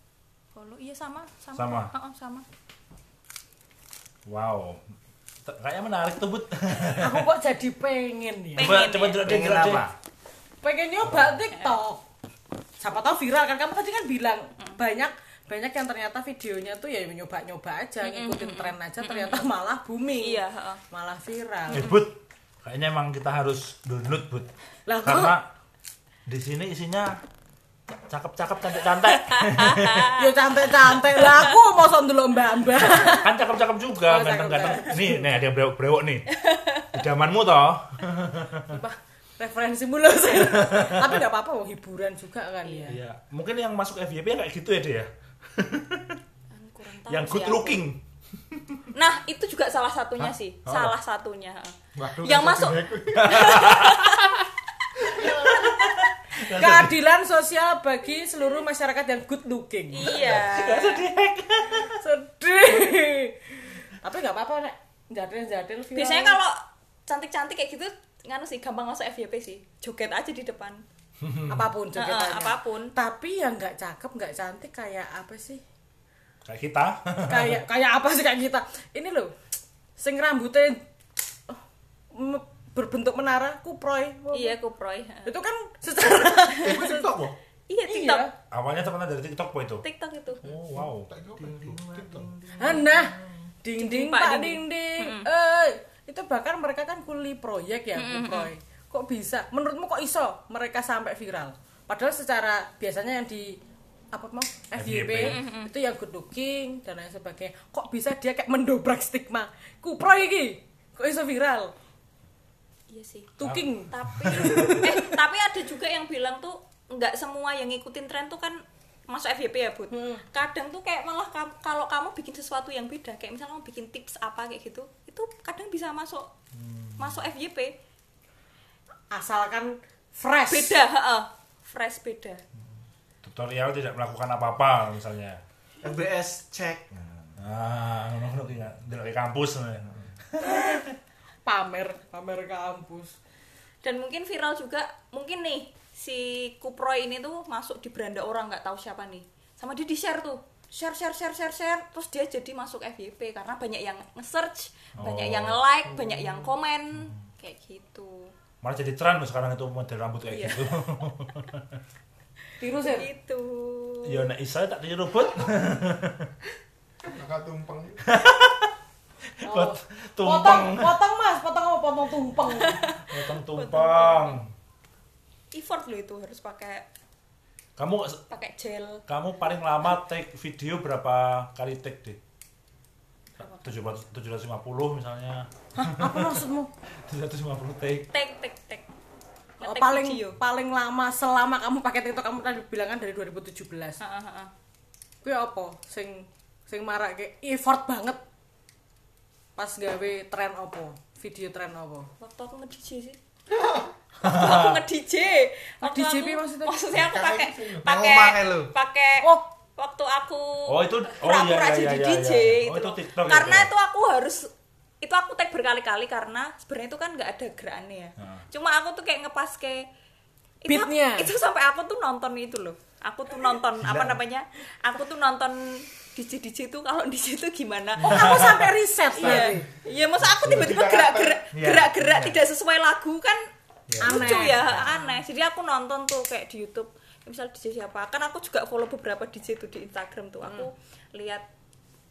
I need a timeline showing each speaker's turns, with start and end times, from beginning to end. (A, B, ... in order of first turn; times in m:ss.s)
0:00.5-0:02.4 A
0:01.6-0:01.9 B
0:04.3-0:04.8 B
0:05.4-0:07.2 B
0:07.0-0:08.8 C
0:08.6-0:09.3 A
0:08.6-0:09.9 B
0:09.2-0:09.9 D
0:10.6-0:12.0 C
0:12.8-0:22.0 C
0:18.0-0:19.5 A
0:20.2-0:20.8 A
0:21.7-0:24.5 B
0:21.7-0:22.0 A
0:24.9-0:25.4 C
0:25.0-0:25.5 B
0:26.3-0:27.2 B
0:28.1-0:30.1 B
0:29.1-0:30.3 A
0:30.2-0:33.3 C
0:32.8-0:36.3 B
0:34.0-0:35.3 C
0:36.3-0:37.0 A
0:36.9-0:38.7 B
0:38.7-0:43.0 C
0:40.3-0:41.2 B
0:42.6-0:42.9 A
0:42.9-0:46.2 B
0:46.5-0:47.8 A
0:47.1-0:48.0 B
0:48.5-0:48.9 B
0:48.9-0:54.5 A
0:50.2-0:51.0 B
0:52.0-0:53.8 E
0:53.1-0:54.3 B
0:55.0-0:55.9 A
0:55.1-0:57.0 B
0:56.4-1:00.2 C
0:59.9-1:01.1 A
1:00.1-1:02.0 B
1:01.8-1:06.4 C
1:05.9-1:10.8 A
1:11.2-1:11.6 B
1:11.5-1:15.6 C
1:11.9-1:12.9 A
1:16.4-1:17.6 B
1:17.2-1:19.4 C
1:20.0-1:20.8 C
1:22.1-1:24.6 C
1:24.3-1:25.4 A
1:25.3-1:27.1 C
1:26.6-1:27.3 E
1:27.7-1:28.2 A
1:27.9-1:28.3 C
1:28.5-1:29.8 B
1:29.8-1:30.4 A
1:30.4-1:31.1 B
1:30.9-1:32.4 E
1:31.4-1:33.5 D
1:32.6-1:43.6 C
1:33.8-1:35.3 A
1:37.9-1:38.5 A
1:44.1-1:51.7 C
1:44.8-1:45.4 B
1:45.2-1:45.7 A
1:52.9-2:06.3 A
1:53.4-1:55.2 C
1:53.4-1:54.8 B
1:59.9-2:00.2 C
2:07.0-2:07.8 A
2:09.1-2:10.8 C
2:10.5-2:12.4 A
2:13.2-2:15.4 B
2:15.8-2:17.4 D
2:17.4-2:20.9 B
2:21.4-2:23.2 C
2:23.8-2:38.3 A
2:35.0-2:35.6 B
2:38.6-2:41.6 B
2:40.3-2:40.7 A
2:42.6-2:43.1 C
2:42.8-2:44.3 A
2:44.1-2:46.3 B
2:47.0-2:48.0 E
2:48.1-2:48.7 B
2:49.4-2:51.0 B
2:49.4-2:52.9 C
2:52.5-2:54.4 A
2:53.1-2:54.5 B
2:55.5-2:56.9 A
2:57.8-2:58.2 B
2:58.3-2:59.0 A
2:59.1-3:02.2 B
3:03.4-3:03.8 A
3:03.6-3:06.4 B
3:05.8-3:06.7 C
3:07.1-3:08.1 B
3:08.1-3:08.9 A
3:09.6-3:14.0 C
3:09.6-3:10.4 A
3:14.0-3:14.5 A
3:15.2-3:18.2 C
3:19.6-3:22.1 C
3:22.2-3:23.2 A
3:23.5-3:23.9 E
3:24.2-3:24.8 B
3:24.2-3:34.5 A
3:25.8-3:26.8 C
3:26.9-3:27.9 E
3:27.8-3:28.7 D
3:30.7-3:33.7 B
3:35.0-3:39.9 A
3:40.6-3:48.4 A
3:40.6-3:41.3 C
3:43.8-3:44.1 D
3:48.0-3:49.6 C
3:49.2-3:53.4 A
3:49.2-3:49.6 E
3:50.2-3:51.4 E
3:51.5-3:52.4 D
3:53.9-3:54.7 D
3:54.0-3:55.2 C
3:54.0-4:01.4 A